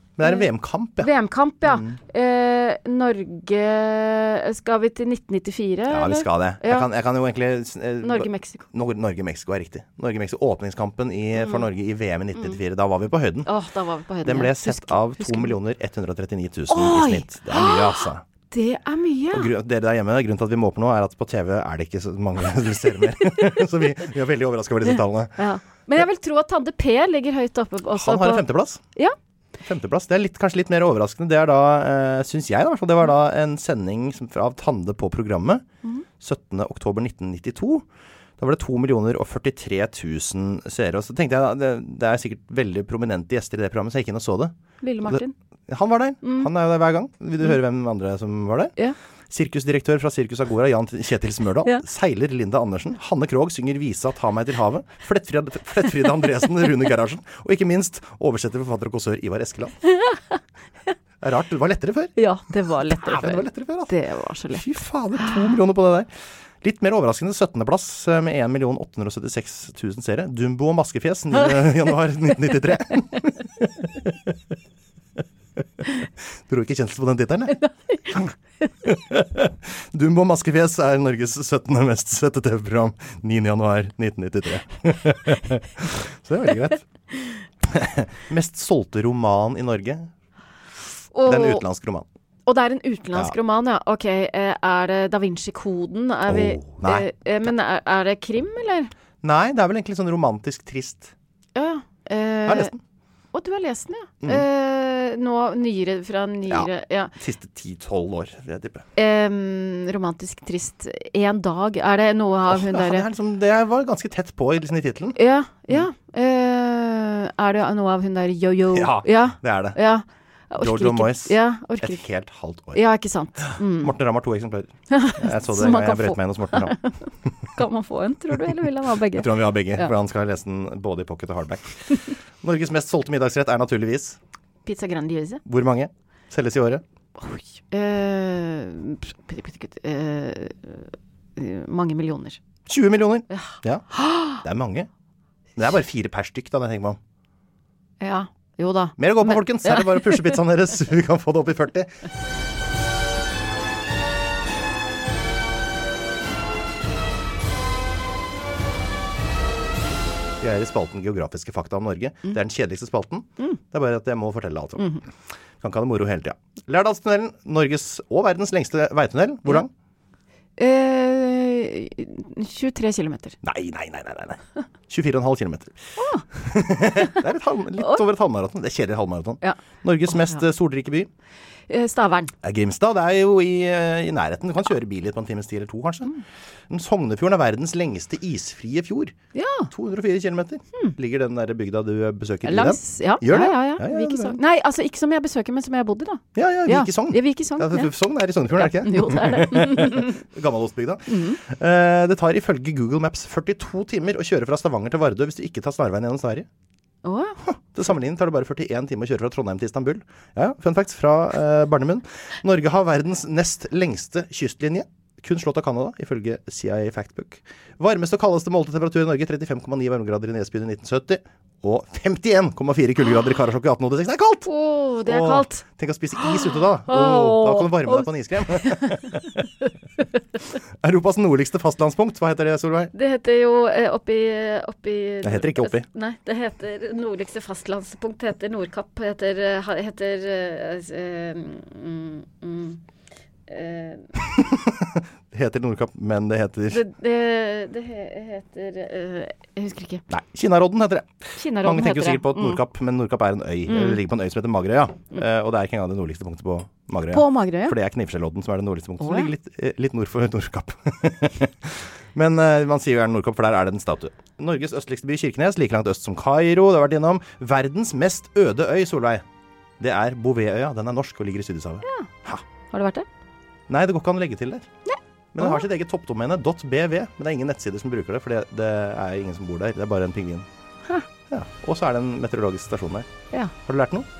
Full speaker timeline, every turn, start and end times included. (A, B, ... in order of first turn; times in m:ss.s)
0:00.2-0:01.1 A
0:00.2-0:06.9 B
0:01.6-0:02.0 A
0:05.9-0:13.5 A
0:08.0-0:08.6 B
0:13.4-0:15.6 B
0:14.2-0:18.2 A
0:16.7-0:19.5 B
0:19.3-0:25.4 A
0:23.2-0:23.6 B
0:24.9-0:29.2 B
0:27.9-0:28.8 A
0:29.6-0:35.6 A
0:36.2-0:37.8 A
0:38.4-0:44.5 A
0:44.8-0:45.3 B
0:45.0-0:48.7 A
0:46.2-0:46.5 B
0:49.3-0:59.8 A
1:00.0-1:00.4 B
1:01.2-1:02.1 A
1:02.2-1:04.6 B
1:02.8-1:03.9 A
1:04.5-1:06.1 A
1:06.6-1:14.4 A
1:11.4-1:11.7 B
1:16.5-1:18.3 A
1:17.6-1:18.0 B
1:18.8-1:26.8 A
1:27.6-1:30.1 A
1:31.1-1:31.6 B
1:31.2-1:32.1 A
1:32.4-1:38.9 B
1:36.3-1:37.1 A
1:39.2-1:41.1 A
1:41.5-1:42.7 B
1:42.4-1:42.8 A
1:43.3-1:47.1 B
1:46.5-1:48.8 A
1:49.0-1:53.0 B
1:52.5-1:55.2 A
1:55.1-2:02.0 B
1:58.7-1:59.8 A
2:00.6-2:02.8 A
2:02.7-2:03.9 B
2:03.4-2:06.8 A
2:04.9-2:09.9 B
2:09.1-2:14.2 A
2:14.6-2:15.4 B
2:15.4-2:16.8 A
2:17.2-2:22.4 B
2:22.7-2:24.9 A
2:23.3-2:24.4 B
2:25.6-2:27.0 A
2:28.0-2:30.3 B
2:29.0-2:31.9 A
2:40.4-2:49.7 A
2:44.8-2:45.0 B
2:50.6-2:53.4 B
2:53.4-2:55.8 A
2:56.0-2:56.2 B
2:56.3-3:01.1 A
2:57.8-2:58.0 B
3:01.7-3:02.3 B
3:02.4-3:06.1 A
3:06.7-3:09.1 A
3:09.3-3:09.7 B
3:09.7-3:14.4 A
3:12.4-3:17.9 B
3:16.3-3:26.5 A
3:18.5-3:20.2 B
3:21.1-3:21.4 B
3:27.0-3:27.4 B
3:27.4-3:44.5 A
3:44.4-3:45.6 B
3:45.0-3:49.5 A
3:46.2-3:49.7 B
3:50.8-3:52.9 A
3:52.9-4:02.8 B
3:55.2-3:55.8 A
4:03.5-4:04.1 B
4:04.3-4:06.8 A
4:06.7-4:10.0 B
4:10.1-4:29.2 A
4:11.4-4:12.6 B
4:13.7-4:14.0 B
4:17.1-4:17.8 B
4:19.0-4:19.3 B
4:29.8-4:32.4 A
4:31.8-4:32.1 B
4:32.7-4:33.1 B
4:33.7-4:34.7 A
4:34.8-4:35.6 B
4:35.3-4:40.5 A
4:41.3-4:43.1 A
4:43.6-4:44.1 A